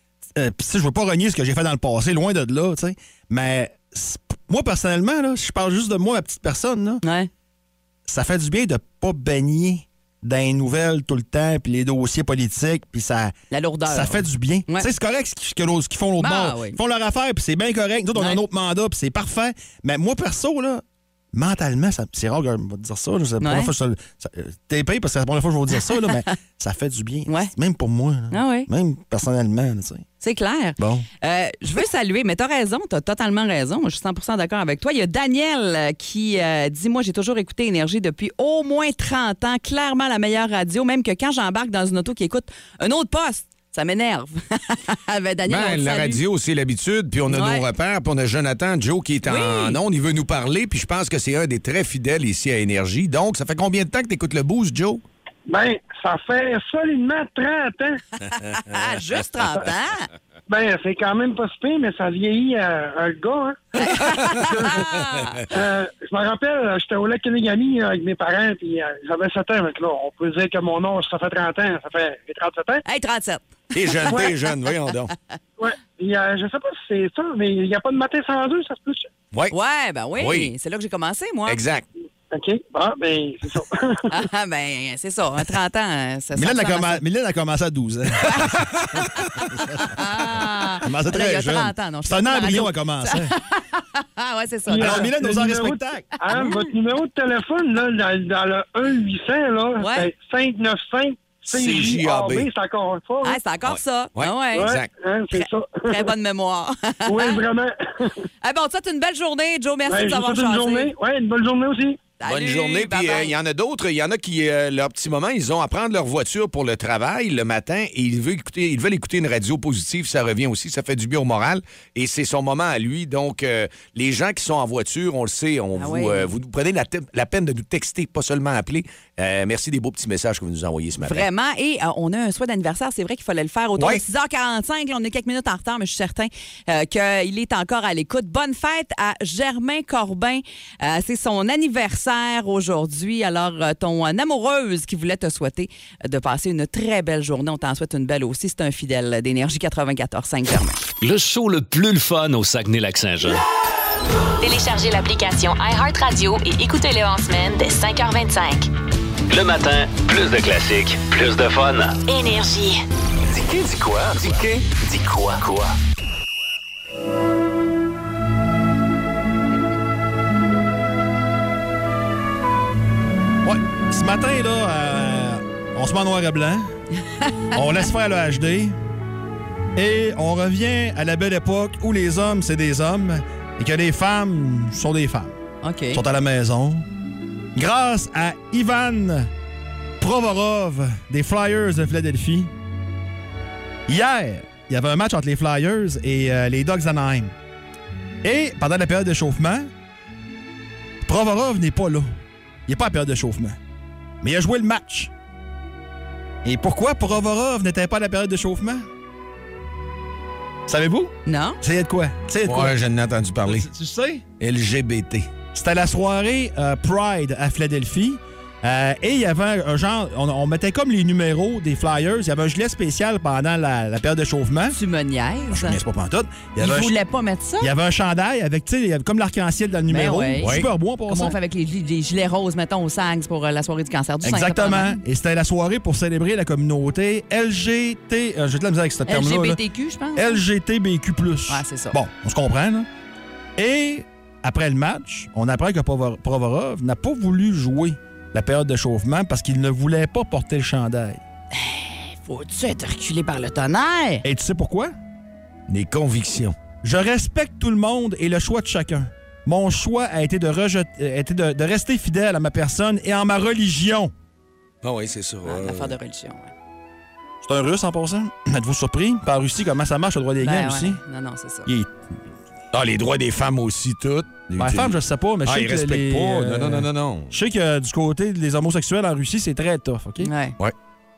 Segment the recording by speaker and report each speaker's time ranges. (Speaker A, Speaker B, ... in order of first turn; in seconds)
Speaker A: 0.3-7.0, 8.1-13.3, 13.9-30.1, 30.8-31.1, 86.3-90.0, 90.8-93.3, 94.8-96.1, 173.4-176.7, 177.5-178.8, 179.8-185.4, 185.9-186.9, 187.6-189.3, 190.0-192.5, 193.9-197.3, 198.2-199.7, 201.0-202.1, 202.7-203.6, 204.2-205.1, 206.4-208.9, 210.7-212.8, 213.4-214.2, 215.5-224.8, 225.5-227.0, 227.6-231.4, 234.2-239.6, 240.2-242.9, 243.6-251.2, 254.2-254.9, 256.8-264.1, 267.4-271.0, 271.7-272.0, 274.6-280.3
Speaker B: 7.0-7.3, 13.5-14.9, 16.2-16.8, 18.2-18.4, 23.4-23.7, 27.3-27.5, 28.3-28.7, 30.2-46.2, 47.3-47.6, 49.2-49.8, 58.3-60.1, 63.8-65.5, 72.8-74.3, 79.5-81.6, 84.1-87.0, 89.9-95.1, 96.3-96.7, 99.8-100.1, 103.2-104.7, 105.3-107.4, 108.4-110.9, 112.2-113.3, 125.8-126.3, 131.0-150.8, 177.2-177.6, 185.6-186.0, 211.3-211.6, 224.7-225.8, 226.6-227.7, 229.9-230.6, 231.1-235.0, 239.1-240.4, 241.5-242.0, 251.6-254.2, 265.4-266.5, 270.4-271.7, 280.2-280.6
Speaker C: 45.5-55.0, 73.7-75.1, 80.2-80.5, 81.5-81.9, 101.5-102.5, 103.7-104.9, 112.2-131.3, 133.8-134.0, 212.4-213.7, 214.4-215.3, 230.4-230.7, 255.7-256.6, 264.8-265.9, 272.7-277.3
Speaker D: 55.5-58.0, 60.5-63.7, 65.5-72.8, 75.6-79.1, 82.3-84.1, 94.7-103.4, 104.5-106.1, 107.1-108.2, 109.9-112.0
Speaker E: 151.0-153.4, 159.3-162.0, 163.3-165.8
Speaker F: 154.4-158.7, 162.1-162.8